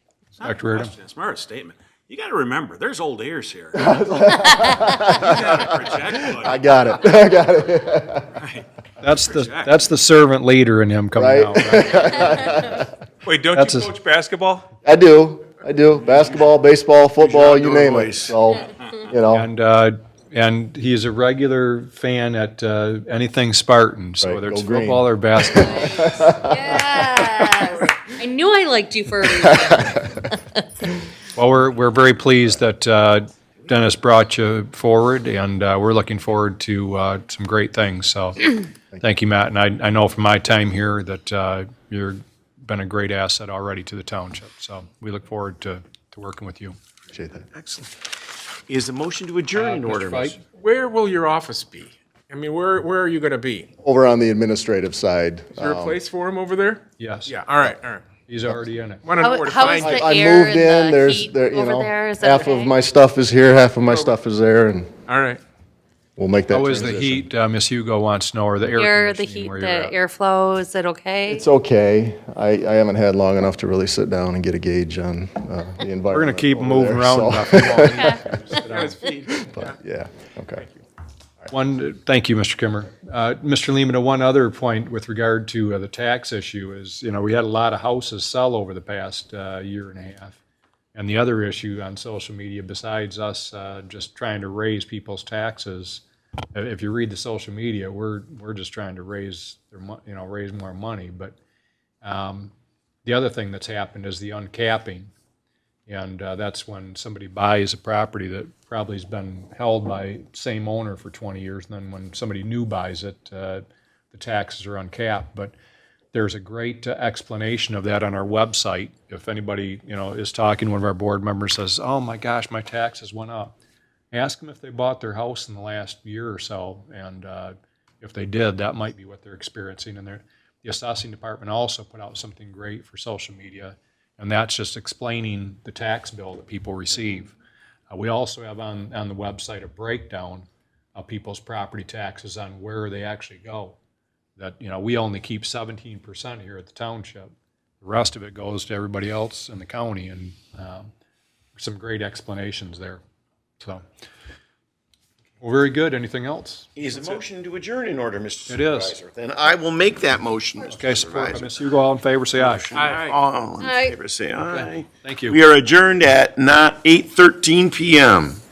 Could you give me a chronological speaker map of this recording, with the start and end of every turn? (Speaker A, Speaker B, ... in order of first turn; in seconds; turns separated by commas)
Speaker A: 0.4-0.9, Speaker B: 0.4-3.8, Speaker C: 3.7-8.3, Speaker B: 5.2-5.8, Speaker A: 9.0-12.5, Speaker C: 11.2-12.9, Speaker D: 13.3-14.2, Speaker A: 13.5-13.9, Speaker C: 14.8-19.5, Speaker E: 17.2-18.3, Speaker A: 19.3-26.2, Speaker C: 24.2-27.6, Speaker F: 26.4-30.2, Speaker C: 29.4-30.2, Speaker A: 31.3-46.7, Speaker C: 47.1-47.5, Speaker E: 47.5-47.9, Speaker E: 48.7-50.4, Speaker A: 49.5-50.4, Speaker D: 50.6-53.7, Speaker C: 53.8-56.0, Speaker D: 55.6-58.0, Speaker A: 57.0-57.4, Speaker A: 58.2-59.1, Speaker D: 59.0-60.0, Speaker F: 59.2-62.7, Speaker C: 59.6-64.9, Speaker D: 65.1-65.4, Speaker C: 66.2-67.3, Speaker A: 66.5-70.0, Speaker F: 68.7-71.4, Speaker C: 71.3-78.2, Speaker A: 76.1-79.0, Speaker F: 77.9-78.2, Speaker D: 78.6-79.8, Speaker C: 79.3-80.6, Speaker D: 80.6-80.8, Speaker A: 81.5-90.4, Speaker A: 90.9-101.3, Speaker A: 102.0-102.5, Speaker A: 103.0-105.1, Speaker A: 105.9-115.5, Speaker A: 116.1-123.5, Speaker A: 124.1-137.3, Speaker A: 137.9-143.8, Speaker A: 144.4-150.9, Speaker A: 151.6-153.0, Speaker A: 155.4-157.1, Speaker E: 156.8-161.5, Speaker A: 158.5-159.0, Speaker A: 160.6-162.7, Speaker E: 162.4-168.4, Speaker D: 162.7-163.2, Speaker F: 163.6-163.9, Speaker A: 164.4-165.4